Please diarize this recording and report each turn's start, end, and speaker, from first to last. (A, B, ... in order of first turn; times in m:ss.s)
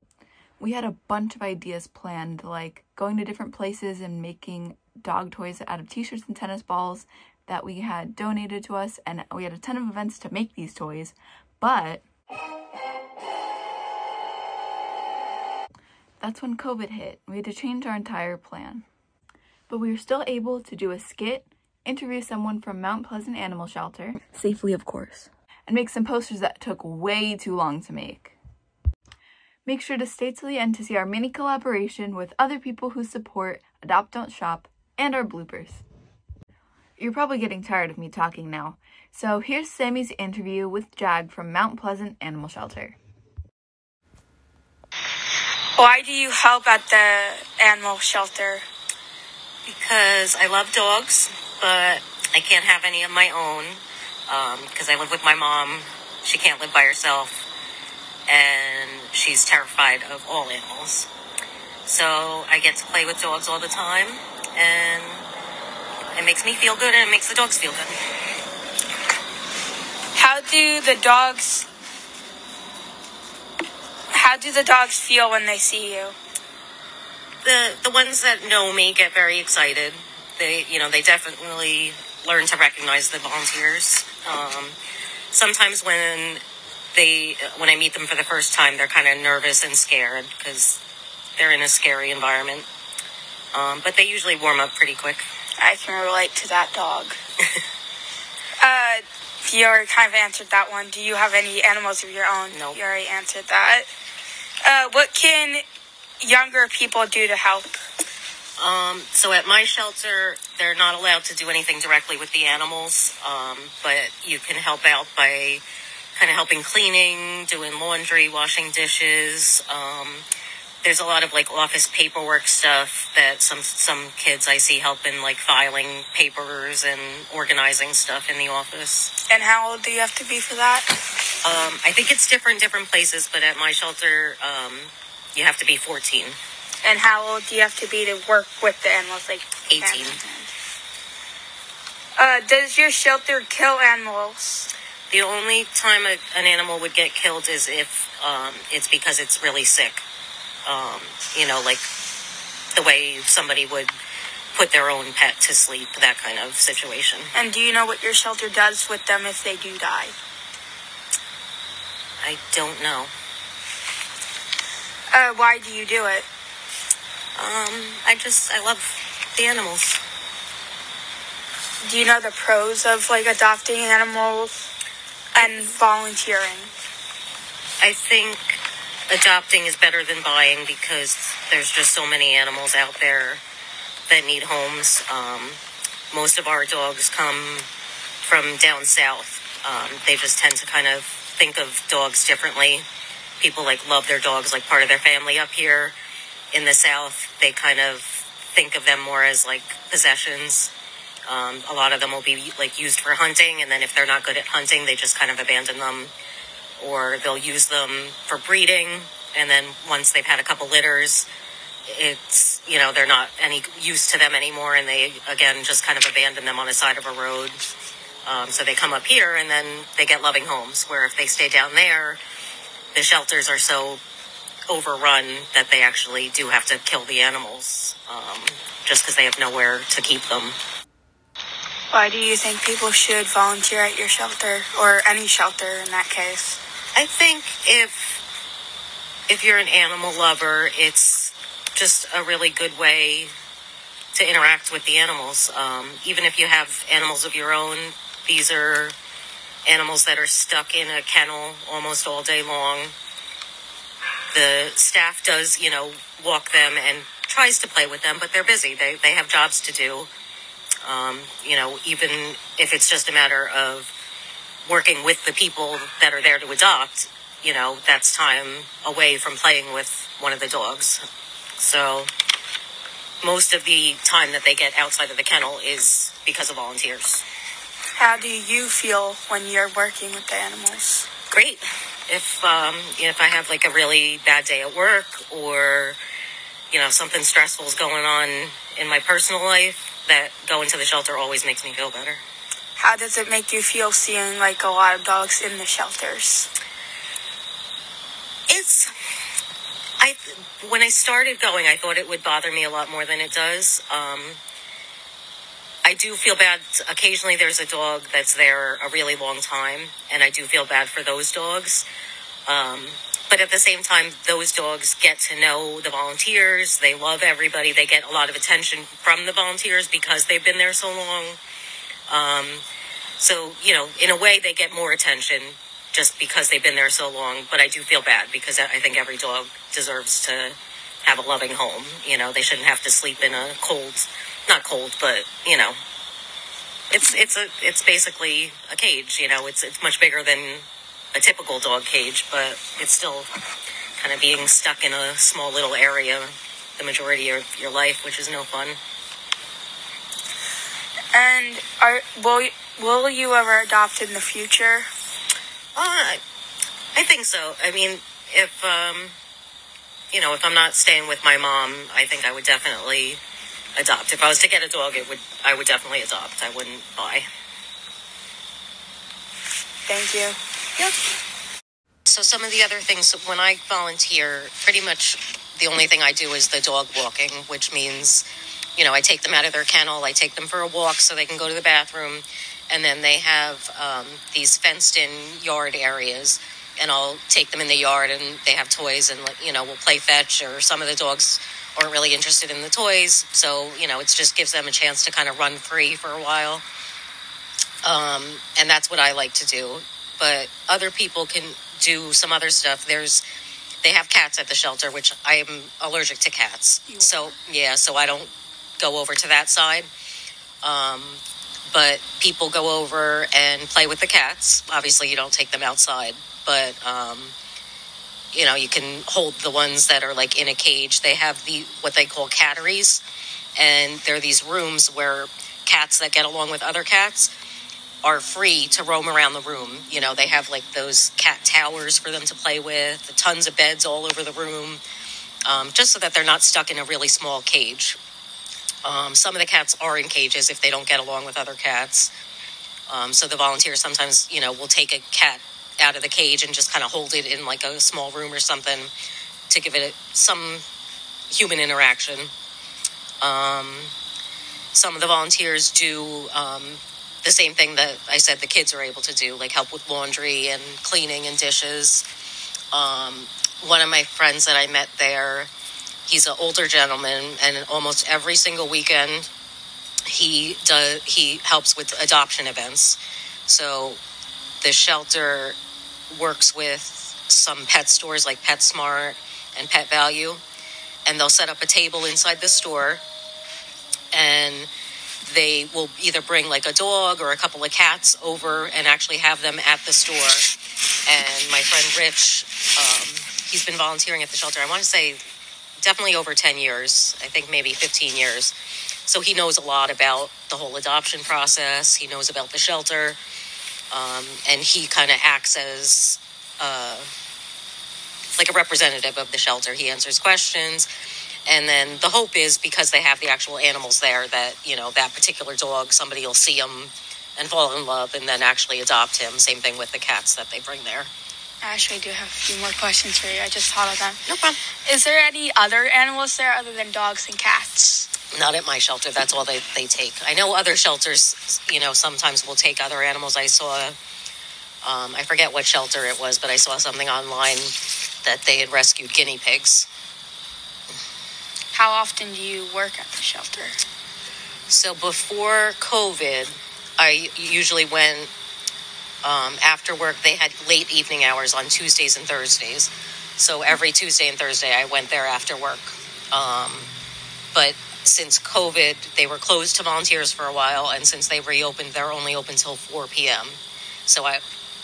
0:00.6-0:12.0 A
0:16.2-0:18.8 A
0:19.7-0:28.4 A
0:29.7-0:35.8 A
0:37.0-0:43.0 A
0:45.8-0:48.7 B
0:49.7-0:57.5 C
0:58.3-1:01.1 C
1:01.9-1:05.3 C
1:06.1-1:08.0 C
1:10.2-1:11.7 B
1:14.1-1:16.2 B
1:17.4-1:24.8 C
1:25.3-1:26.4 C
1:26.9-1:30.8 C
1:31.4-1:32.7 C
1:33.5-1:35.3 C
1:35.6-1:37.2 B
1:38.6-1:43.9 B
1:42.5-1:42.8 C
1:44.6-1:45.6 B
1:46.2-1:47.8 B
1:48.6-1:55.6 C
1:56.2-2:00.3 C
2:00.8-2:09.1 C
2:09.3-2:10.9 B
2:11.4-2:16.4 C
2:16.8-2:20.5 B
2:19.7-2:20.2 C
2:22.2-2:24.7 B
2:25.1-2:30.0 C
2:30.7-2:31.9 C
2:32.7-2:33.9 C
2:34.5-2:37.3 C
2:37.3-2:40.1 B
2:42.2-2:43.1 C
2:45.1-2:46.3 B
2:47.4-2:50.0 C
2:51.8-2:54.6 B
2:55.4-2:56.7 B
2:55.4-2:55.8 C
2:57.8-3:03.4 C
3:04.1-3:05.6 C
3:06.1-3:07.7 C
3:08.2-3:12.9 C
3:13.4-3:16.0 C
3:16.5-3:20.7 C
3:21.3-3:26.1 C
3:26.8-3:31.3 C
3:31.9-3:37.6 C
3:38.2-3:42.2 C
3:42.9-3:44.0 C
3:44.7-3:50.6 C
3:51.9-3:56.6 B
3:57.0-3:58.2 C
3:59.3-4:03.3 C
4:04.1-4:09.0 C
4:09.7-4:12.9 C
4:14.3-4:20.1 C
4:20.8-4:23.9 C
4:24.6-4:31.0 C
4:31.6-4:32.1 C
4:33.2-4:37.2 C
4:38.0-4:41.1 B
4:41.3-4:46.0 C
4:46.7-4:52.2 C
4:52.8-4:56.5 B
4:58.5-4:58.9 C
5:00.0-5:04.4 C
5:05.8-5:11.9 C
5:12.5-5:21.4 C
5:22.1-5:22.6 C
5:23.2-5:35.8 C
5:36.9-5:43.3 C
5:44.0-5:48.8 C
5:51.1-5:54.9 B
5:55.8-5:56.2 C
5:56.9-5:59.2 C
6:00.1-6:03.2 C
6:03.8-6:07.3 C
6:09.9-6:10.4 B
6:12.1-6:18.2 C
6:18.8-6:36.6 C
6:37.8-6:43.2 C
6:43.8-6:49.9 C
6:50.6-6:57.3 C
6:58.3-7:03.0 C
7:03.6-7:07.3 C
7:08.0-7:14.8 C
7:15.4-7:18.0 C
7:18.8-7:22.1 C
7:22.9-7:28.9 C
7:29.5-7:30.6 C
7:31.3-7:32.3 C
7:33.2-7:33.9 C
7:34.7-7:42.0 C
7:42.7-7:45.5 C
7:46.1-7:49.3 C
7:50.0-7:54.0 C
7:54.6-7:55.6 C
7:56.1-8:00.4 C
8:01.0-8:03.0 C
8:04.1-8:04.7 C
8:05.2-8:10.5 C
8:11.1-8:15.2 C
8:15.8-8:18.5 C
8:19.1-8:23.2 C
8:23.9-8:27.1 C
8:28.4-8:30.9 C
8:31.5-8:41.1 C
8:41.6-8:44.2 B
8:44.3-8:44.6 C
8:44.9-8:48.1 B
8:48.3-8:54.0 C
8:54.8-8:59.9 C
9:01.7-9:03.8 B
9:04.7-9:08.3 C
9:09.2-9:16.9 C
9:17.5-9:24.4 C